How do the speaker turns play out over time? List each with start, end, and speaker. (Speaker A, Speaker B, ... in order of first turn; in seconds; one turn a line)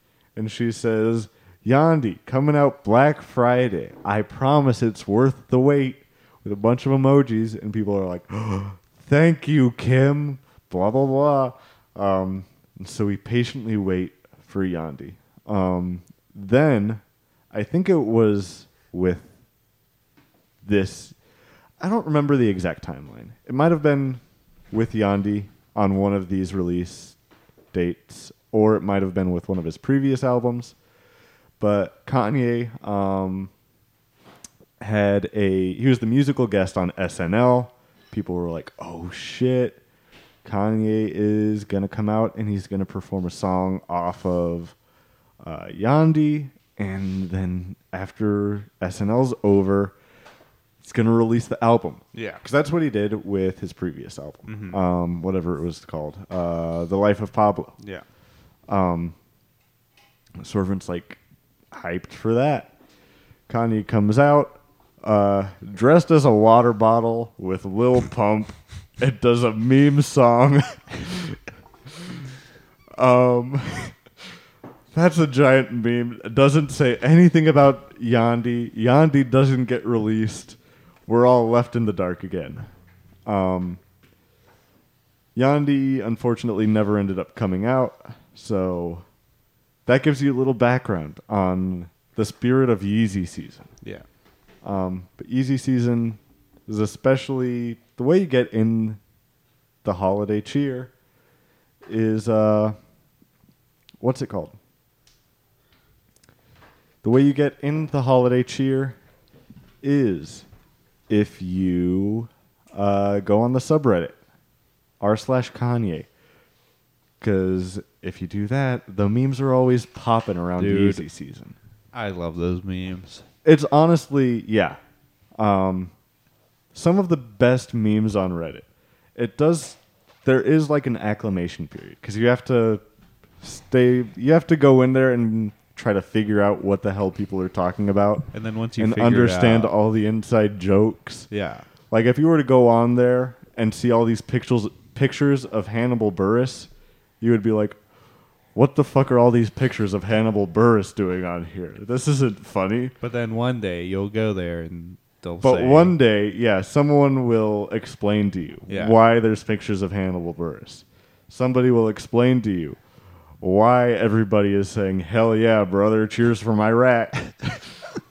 Speaker A: 0.3-19.3
Speaker A: 20.6-21.1
Speaker A: 21.8-27.1
Speaker A: 27.7-30.7
Speaker A: 31.6-33.5
Speaker A: 34.8-39.8
Speaker A: 40.4-44.7
Speaker A: 45.4-50.0
Speaker A: 50.8-57.8
Speaker B: 52.1-52.4
Speaker B: 54.5-54.8
Speaker B: 57.8-58.0
Speaker A: 58.7-59.1
Speaker A: 60.4-61.2
Speaker A: 61.7-62.7
Speaker A: 63.5-71.4
Speaker A: 73.0-74.0
Speaker A: 74.9-82.7
Speaker A: 83.2-83.8
Speaker A: 85.3-89.0
Speaker A: 89.8-93.7
Speaker A: 94.6-99.0
Speaker A: 99.8-100.9
Speaker A: 101.8-102.8
Speaker A: 104.0-104.5
Speaker A: 107.0-109.0
Speaker A: 109.8-110.5
Speaker A: 111.1-114.2
Speaker A: 115.0-116.1
Speaker A: 117.2-121.5
Speaker B: 120.6-121.0
Speaker B: 121.9-123.2
Speaker A: 123.4-124.8
Speaker A: 125.4-125.9
Speaker A: 126.7-132.8
Speaker A: 133.4-141.3
Speaker B: 138.3-139.7
Speaker B: 141.3-141.6
Speaker A: 141.9-146.7
Speaker A: 147.2-147.8
Speaker A: 148.5-152.9
Speaker B: 153.0-156.0
Speaker A: 155.4-162.8
Speaker B: 158.7-159.0
Speaker A: 163.4-167.6